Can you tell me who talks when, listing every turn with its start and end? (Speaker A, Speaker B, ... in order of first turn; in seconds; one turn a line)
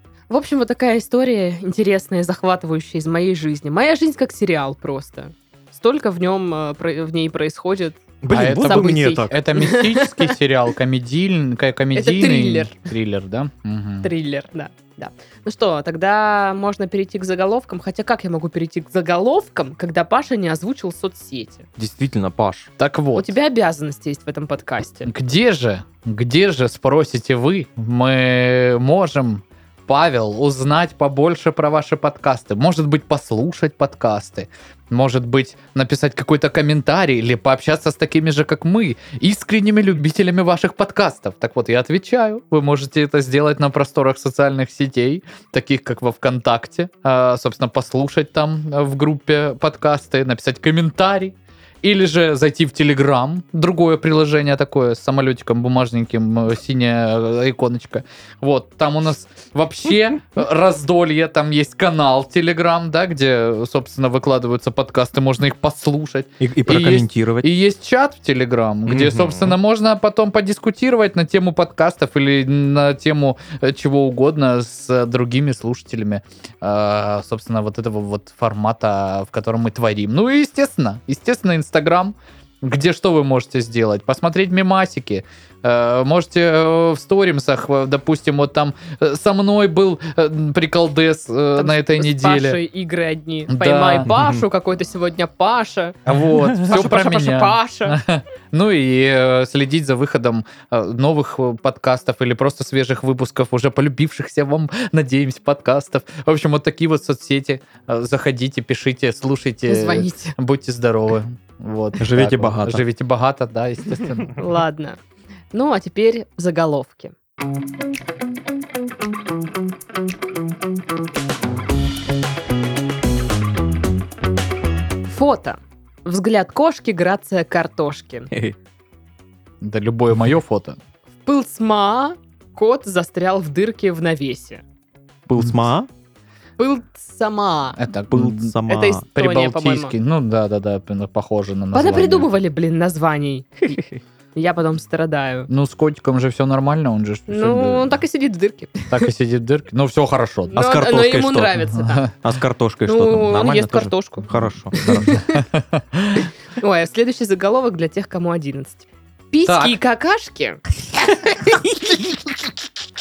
Speaker A: 0.3-10.3
Speaker B: 8.2-9.4
Speaker C: 8.3-14.1
Speaker A: 11.9-12.8
Speaker A: 14.0-21.7
Speaker B: 21.8-22.7
Speaker C: 22.8-23.3
Speaker A: 23.2-25.1
Speaker C: 25.1-92.6
Speaker B: 66.4-67.5
Speaker B: 68.9-69.6
Speaker A: 91.6-96.0
Speaker C: 93.5-94.1
Speaker B: 94.1-94.3
Speaker C: 96.1-114.4
Speaker B: 96.4-96.7
Speaker A: 96.6-98.0
Speaker A: 109.7-110.4
Speaker B: 112.0-112.8
Speaker A: 114.4-115.0
Speaker A: 115.5-117.2
Speaker A: 125.1-128.3
Speaker C: 129.6-130.8
Speaker A: 131.2-134.6
Speaker B: 135.3-135.9
Speaker A: 136.6-137.8
Speaker C: 137.8-138.6
Speaker B: 138.1-139.0
Speaker A: 138.7-139.9
Speaker C: 139.1-142.3
Speaker A: 141.7-145.5
Speaker C: 145.5-148.0
Speaker A: 147.3-149.1
Speaker C: 148.9-150.6
Speaker A: 150.5-152.1
Speaker B: 150.6-151.6
Speaker C: 151.8-152.1
Speaker B: 152.2-155.2
Speaker A: 152.9-155.4
Speaker C: 154.9-156.3
Speaker A: 156.6-160.6
Speaker C: 159.5-159.8